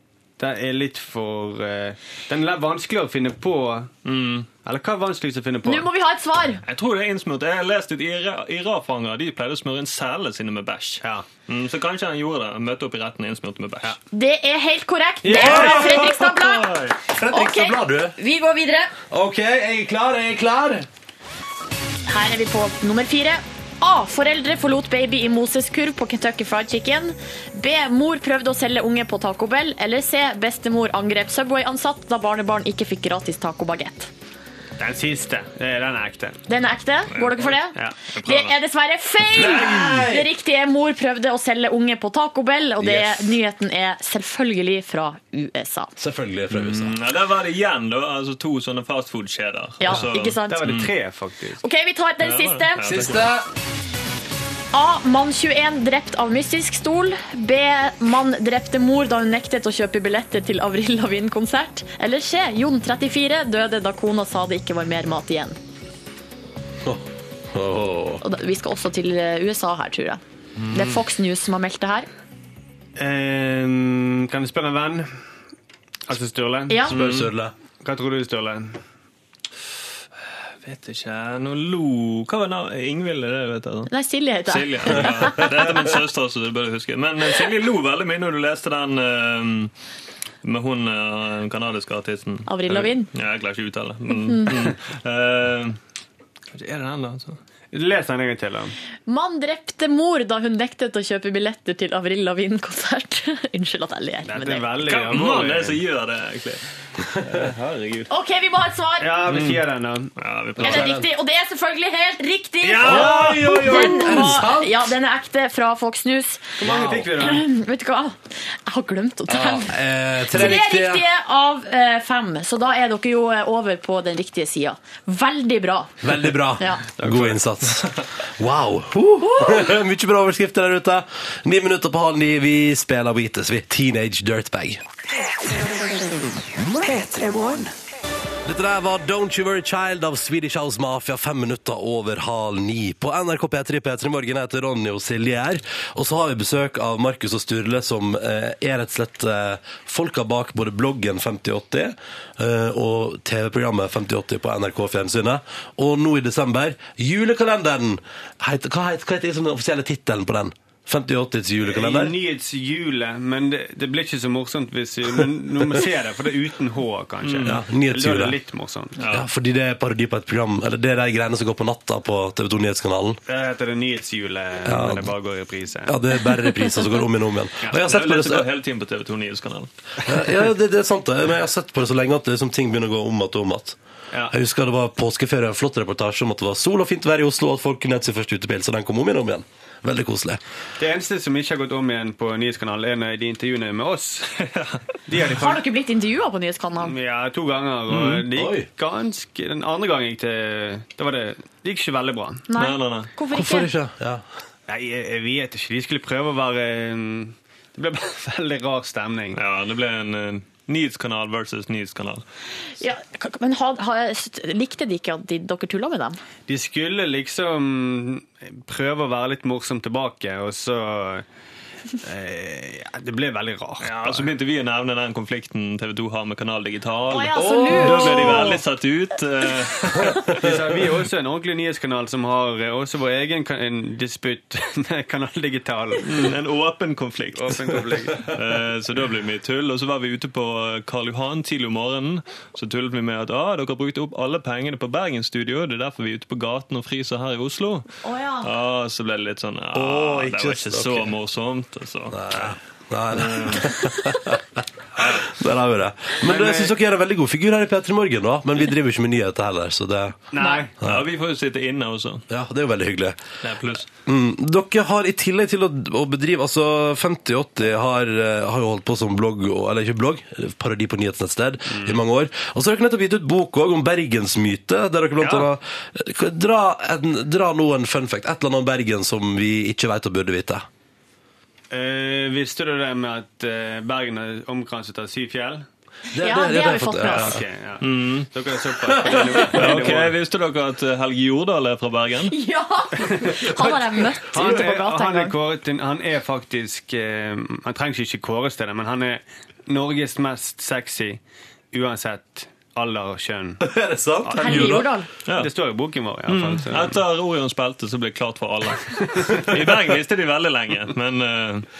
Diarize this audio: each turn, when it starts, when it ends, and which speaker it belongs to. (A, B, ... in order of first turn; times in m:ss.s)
0:00.4-0:03.9 A
0:04.0-0:04.5 B
0:04.6-0:05.8 A
0:05.6-0:06.6 C
0:06.6-0:14.0 B
0:11.0-0:11.3 A
0:14.1-0:18.9 C
0:15.2-0:16.0 A
0:15.3-0:16.3 D
0:15.4-0:15.8 B
0:16.4-0:17.0 B
0:17.1-0:18.2 D
0:19.1-0:20.9 D
0:22.1-0:34.1 C
0:34.8-0:36.4 A
0:36.5-0:45.9 C
0:37.1-0:38.6 B
0:37.7-0:38.1 A
0:39.3-0:40.3 D
0:39.6-0:39.8 B
0:42.8-0:43.1 D
0:46.0-0:47.0 D
0:46.5-0:50.9 B
0:49.8-0:50.7 C
0:50.0-0:51.6 A
0:51.6-0:53.2 C
0:52.2-0:53.4 B
0:52.8-0:53.5 D
0:54.7-1:05.6 C
1:06.8-1:08.2 D
1:08.2-1:12.1 C
1:13.0-1:15.2 A
1:16.1-1:17.3 A
1:16.7-1:16.9 C
1:16.9-1:17.5 D
1:17.0-1:17.2 B
1:17.8-1:18.8 A
1:20.6-1:23.9 B
1:23.9-1:25.7 C
1:24.4-1:29.7 B
1:30.4-1:35.8 B
1:32.4-1:33.1 C
1:36.5-1:37.4 B
1:37.7-1:38.7 A
1:39.1-1:44.7 C
1:44.2-1:45.8 A
1:44.8-1:46.6 B
1:47.1-1:48.1 B
1:48.1-1:49.1 C
1:49.0-1:50.1 A
1:49.3-1:49.6 B
1:50.2-1:50.9 B
1:50.6-1:51.1 D
1:50.6-2:06.0 C
1:52.7-1:54.0 A
1:52.7-1:54.2 B
1:52.8-1:54.8 D
1:56.6-1:57.4 A
1:56.6-1:57.1 D
1:59.3-2:01.0 D
2:06.0-2:14.8 D
2:06.6-2:06.8 C
2:07.0-2:07.4 A
2:09.2-2:09.7 C
2:18.4-2:42.1 D
2:41.6-2:49.0 A
2:47.2-2:47.6 B
2:47.4-2:48.4 D
2:49.0-2:49.2 B
2:49.0-2:53.2 D
2:53.2-2:55.9 A
2:54.6-2:55.1 D
2:55.9-2:58.5 D
2:57.6-2:57.9 A
2:57.8-2:59.7 B
3:00.0-3:03.8 D
3:04.3-3:10.4 D
3:10.8-3:14.5 A
3:15.1-3:15.6 A
3:15.4-3:16.9 C
3:16.8-3:22.5 A
3:17.9-3:18.2 B
3:18.3-3:18.7 D
3:22.5-3:23.7 C
3:22.5-3:23.1 B
3:23.3-3:24.2 D
3:24.7-3:29.4 A
3:29.3-3:32.2 B
3:32.8-3:36.2 C
3:36.5-3:41.2 A
3:42.0-3:44.3 A
3:43.8-3:50.2 B
3:47.1-3:48.6 C
3:47.4-3:48.5 D
3:50.1-3:50.6 D
3:50.2-3:56.3 A
3:56.0-4:07.9 B
3:57.3-3:58.3 A
4:08.0-4:08.5 C
4:08.4-4:12.6 B
4:09.7-4:11.1 D
4:12.1-4:20.3 D
4:13.1-4:13.7 B
4:15.0-4:15.3 B
4:16.2-4:16.7 A
4:20.3-4:20.8 A
4:20.4-4:20.6 C
4:20.8-4:22.2 B
4:20.8-4:21.0 D
4:22.3-4:23.2 D
4:23.4-4:23.9 B
4:24.0-4:40.6 D
4:31.7-4:32.0 A
4:35.2-4:35.5 A
4:41.7-4:45.6 A
4:46.1-4:47.4 D
4:46.2-4:47.4 C
4:47.1-4:50.2 A
4:47.8-4:48.3 B
4:49.0-4:49.4 D
4:49.0-4:49.4 C
4:49.5-4:52.4 B
4:52.3-4:55.4 C
4:53.5-5:01.2 A
5:01.7-5:03.6 A
5:03.6-5:04.9 D
5:04.2-5:07.0 A
5:04.3-5:05.1 C
5:05.2-5:05.5 B
5:06.2-5:11.7 B
5:09.5-5:09.8 D